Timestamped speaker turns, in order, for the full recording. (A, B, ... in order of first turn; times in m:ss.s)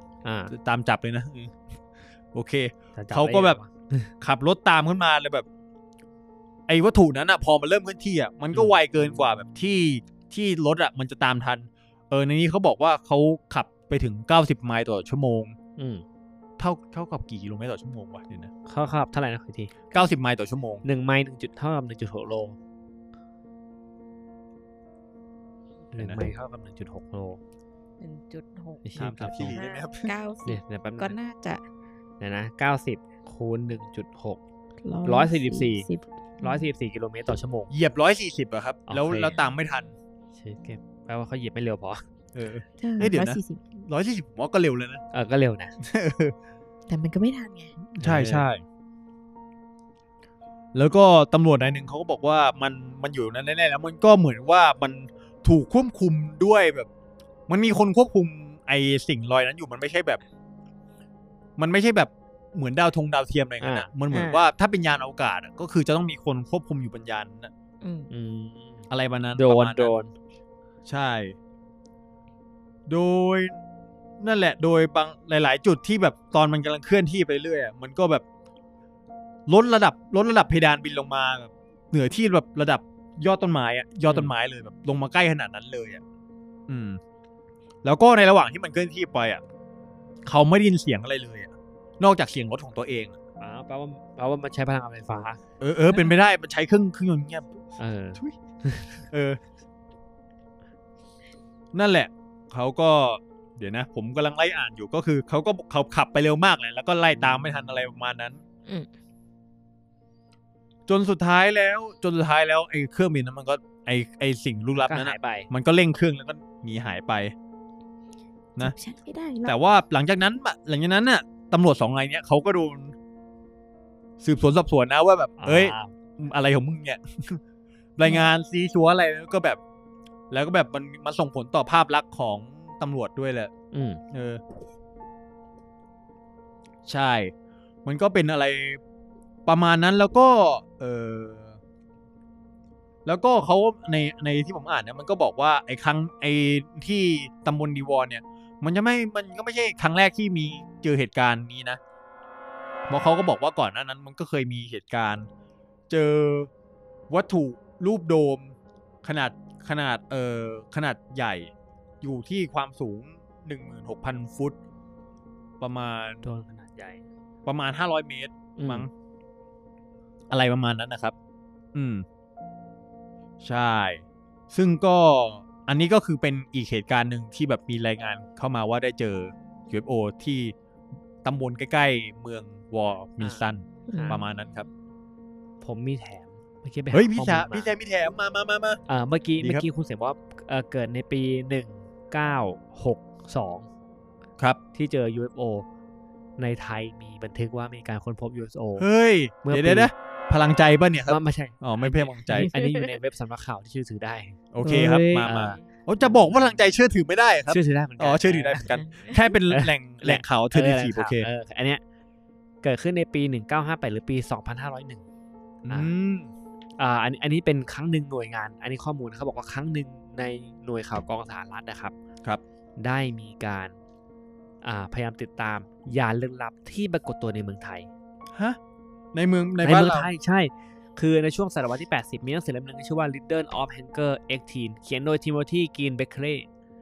0:00.2-0:00.5 A
0:00.5-0:01.6 B
0:02.3-0:03.6 B
0:03.0-0:04.1 A
0:04.2-0:05.4 B
0:06.7-0:15.6 B
0:15.8-0:16.0 A
0:16.6-0:18.5 B
0:18.6-0:19.7 A
0:19.9-0:20.8 B
0:20.8-0:22.6 A
0:25.9-0:27.4 A
0:26.0-0:26.2 B
0:28.0-0:31.6 C
0:28.8-0:29.6 A
0:29.0-0:30.1 B
0:30.4-0:31.1 A
0:32.2-0:34.4 A
0:34.8-0:36.7 C
0:35.0-0:35.9 A
0:36.4-0:37.7 A
0:37.7-0:39.9 B
0:38.9-0:39.4 A
0:40.3-0:42.0 A
0:42.3-0:45.0 B
0:42.8-0:43.6 C
0:45.1-0:45.7 A
0:45.8-0:46.3 B
0:46.9-0:47.7 C
0:47.9-0:48.6 B
0:48.0-0:48.4 A
0:50.7-0:56.9 B
0:57.5-1:00.2 B
1:01.6-1:07.5 B
1:03.6-1:03.9 A
1:04.1-1:04.4 C
1:07.8-1:08.1 C
1:08.1-1:10.1 A
1:08.9-1:09.9 B
1:10.8-1:11.4 B
1:12.9-1:13.6 B
1:14.2-1:18.2 B
1:19.5-1:26.0 B
1:24.1-1:24.3 A
1:26.7-1:27.0 B
1:27.8-1:29.4 B
1:30.2-1:33.2 B
1:33.4-1:35.4 A
1:35.6-1:37.6 B
1:37.8-1:39.0 A
1:39.1-1:39.4 B
1:41.7-1:48.4 B
1:50.9-1:57.3 B
1:54.8-1:55.5 A
1:58.6-1:59.6 C
1:59.4-2:02.9 B
2:04.2-2:07.4 B
2:05.4-2:05.9 A
2:08.0-2:09.6 B
2:08.0-2:08.3 C
2:10.3-2:13.5 B
2:13.7-2:14.0 A
2:14.1-2:14.4 B
2:16.8-2:17.3 B
2:17.8-2:18.8 B
2:19.4-2:21.6 B
2:23.0-2:31.8 B
2:32.9-2:35.3 B
2:35.9-2:36.5 B
2:37.1-2:44.6 B
2:45.6-2:46.2 B
2:46.2-2:47.0 A
2:47.4-2:48.9 B
2:48.6-2:48.9 A
2:50.3-2:51.1 B
2:51.7-2:52.0 B
2:53.4-3:00.5 B
3:01.2-3:04.7 B
3:03.2-3:04.2 A
3:03.9-3:04.2 C
3:05.6-3:07.7 A
3:06.9-3:08.8 B
3:08.9-3:13.7 A
3:09.4-3:09.6 B
3:14.7-3:15.6 A
3:16.4-3:18.9 A
3:18.8-3:22.5 B
3:19.4-3:19.9 A
3:21.1-3:25.6 A
3:22.3-3:22.9 C
3:24.5-3:31.3 B
3:24.8-3:25.5 C
3:27.5-3:28.8 A
3:28.7-3:29.2 C
3:29.5-3:31.8 A
3:32.6-3:35.0 A
3:35.6-3:36.3 B
3:36.8-3:41.9 A
3:42.8-3:43.8 A
3:44.6-3:47.9 A
3:48.3-3:48.6 B
3:49.1-3:50.1 B
3:49.6-3:56.5 A